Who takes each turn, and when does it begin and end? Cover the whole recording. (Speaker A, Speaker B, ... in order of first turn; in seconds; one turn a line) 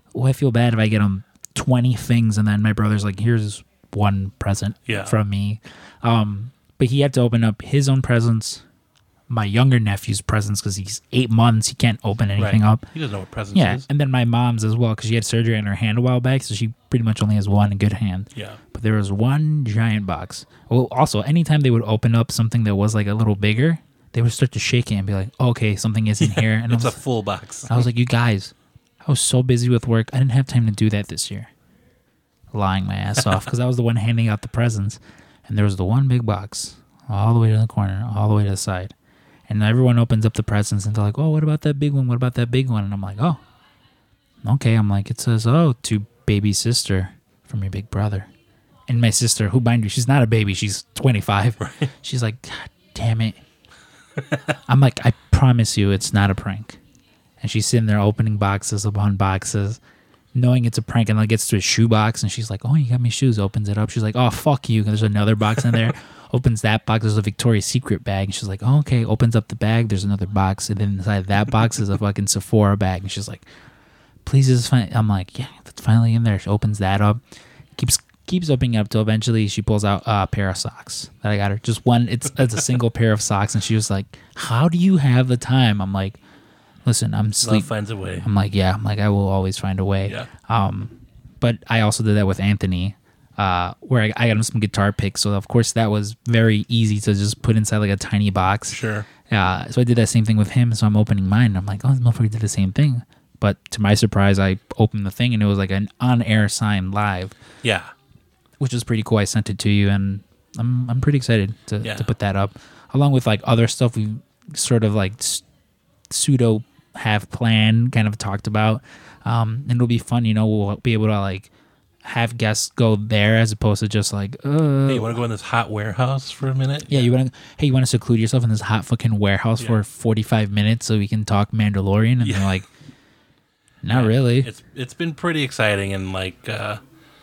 Speaker A: 0.1-8.6
Speaker B: 4.9-5.2
Speaker A: 9.3-12.9
Speaker B: 12.4-13.9
Speaker A: 13.5-27.0
Speaker B: 26.2-27.9
Speaker A: 27.7-31.5
Speaker A: 32.5-38.9
Speaker A: 39.5-43.4
Speaker A: 44.4-48.3
Speaker A: 48.9-53.4
Speaker B: 51.6-51.9
Speaker A: 54.7-56.8
Speaker A: 57.4-59.8
Speaker A: 60.4-73.5
Speaker B: 65.6-65.9
Speaker A: 74.2-77.2
Speaker A: 77.8-86.2
Speaker A: 86.8-107.4
Speaker B: 87.4-88.3
Speaker B: 98.7-99.1
Speaker B: 107.6-107.9
Speaker A: 108.6-115.4
Speaker B: 111.8-112.1
Speaker A: 116.1-121.5
Speaker A: 122.0-125.2
Speaker B: 124.9-127.1
Speaker A: 126.9-132.7
Speaker B: 129.6-129.8
Speaker B: 132.2-132.6
Speaker A: 133.8-134.5
Speaker B: 133.9-136.8